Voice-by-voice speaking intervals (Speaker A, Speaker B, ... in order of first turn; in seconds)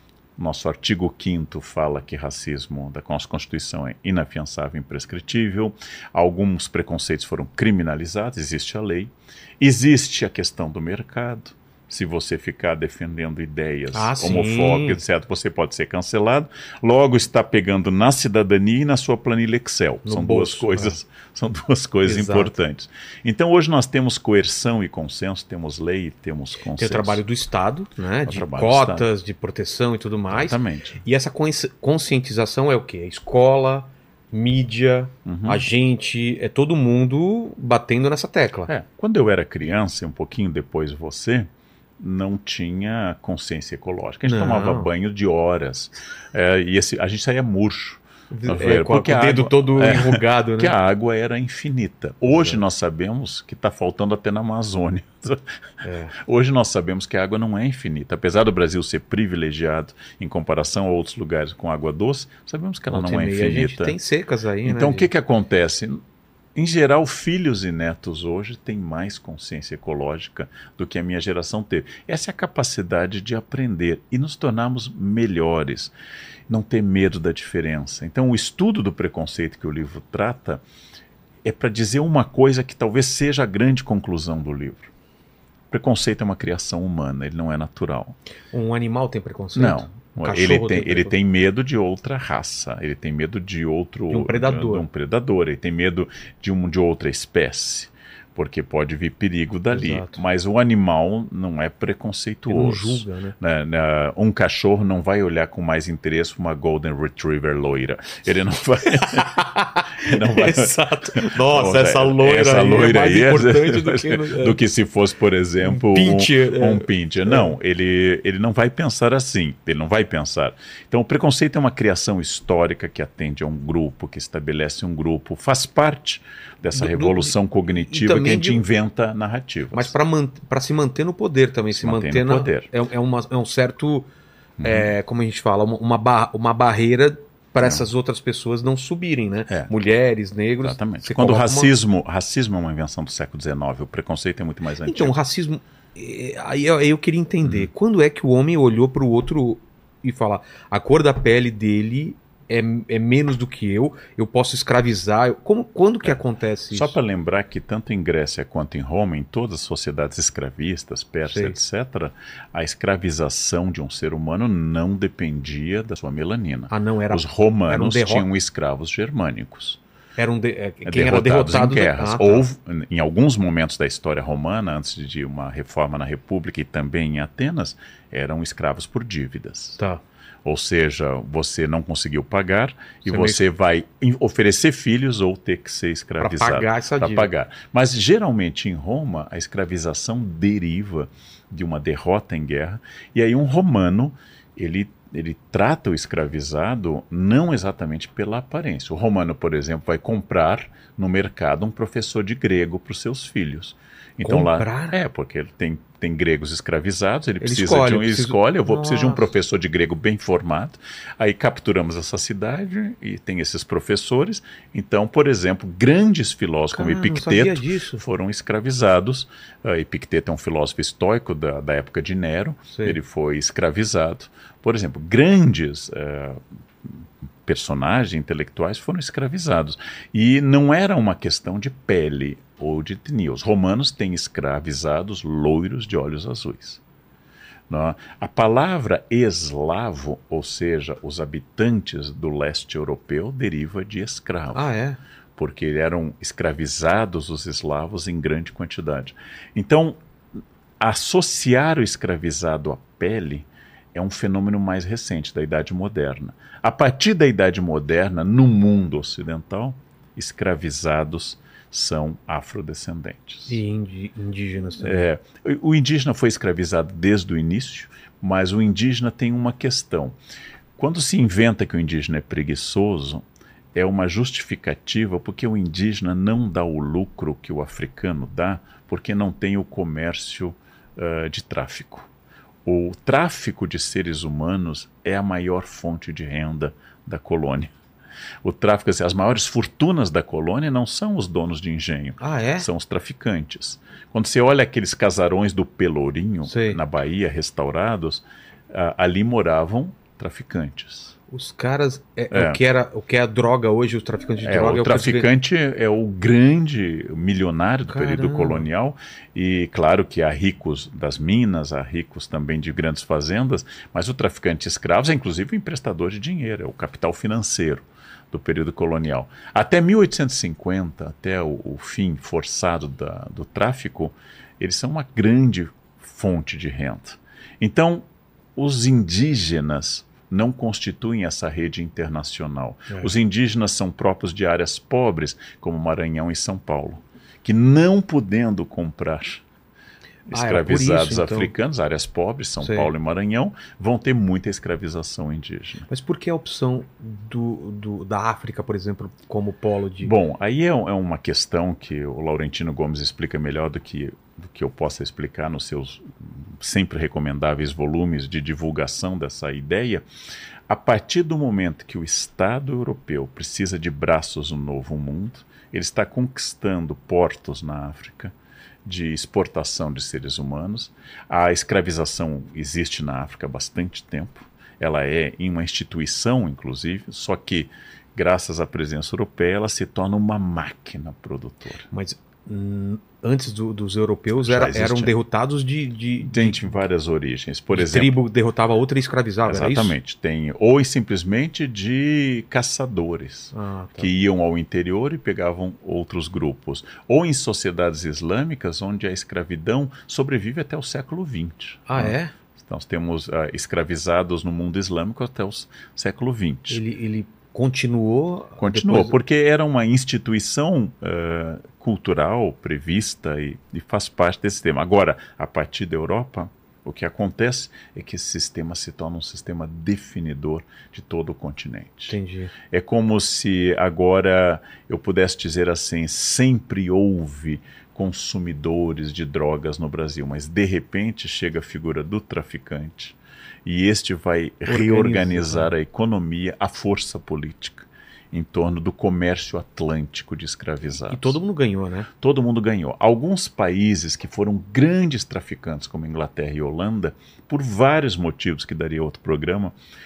Speaker A: 0.4-27.2, 28.2-29.1, 30.3-31.0, 35.2-35.7, 38.7-55.4, 56.1-64.0, 64.6-66.0, 66.5-75.9, 76.5-80.6, 81.4-84.9, 85.7-88.2, 89.5-109.4, 110.0-129.9, 131.7-132.7, 134.6-134.9, 140.6-145.1, 147.4-147.7, 156.7-169.8, 170.8-179.8, 180.4-236.8, 237.7-244.7, 245.3-250.0, 250.8-263.6, 264.8-270.2, 270.8-282.1, 282.6-287.7, 288.4-301.1, 302.3-302.6, 304.4-339.4, 340.3-345.9, 350.0-360.1, 360.7-368.3, 368.8-381.9, 384.4-385.1, 386.2-388.1, 389.5-406.8, 408.6-422.1, 422.7-441.4, 442.2-449.8
Speaker B: 13.9-15.0, 20.0-21.0, 22.0-22.6, 26.8-38.7, 44.2-44.9, 48.3-50.7, 52.3-52.6, 55.8-56.1, 62.9-65.1, 88.5-91.1, 94.1-94.8, 99.7-100.2, 102.5-103.3, 109.0-114.6, 115.6-117.5, 126.7-128.6, 129.7-134.1, 134.6-141.7, 144.8-156.9, 161.3-161.6, 166.7-168.3, 170.2-172.4, 183.1-183.4, 186.2-187.3, 204.2-204.9, 207.4-209.2, 216.7-218.0, 222.7-223.0, 244.5-245.0, 263.5-265.0, 292.2-292.6, 296.5-296.8, 301.3-305.2, 307.9-308.7, 340.3-341.5, 342.6-342.9, 345.9-350.1, 381.9-386.7, 387.7-389.9, 393.5-394.1, 401.9-402.3, 406.7-409.1, 422.1-422.5, 434.7-435.7, 441.1-442.1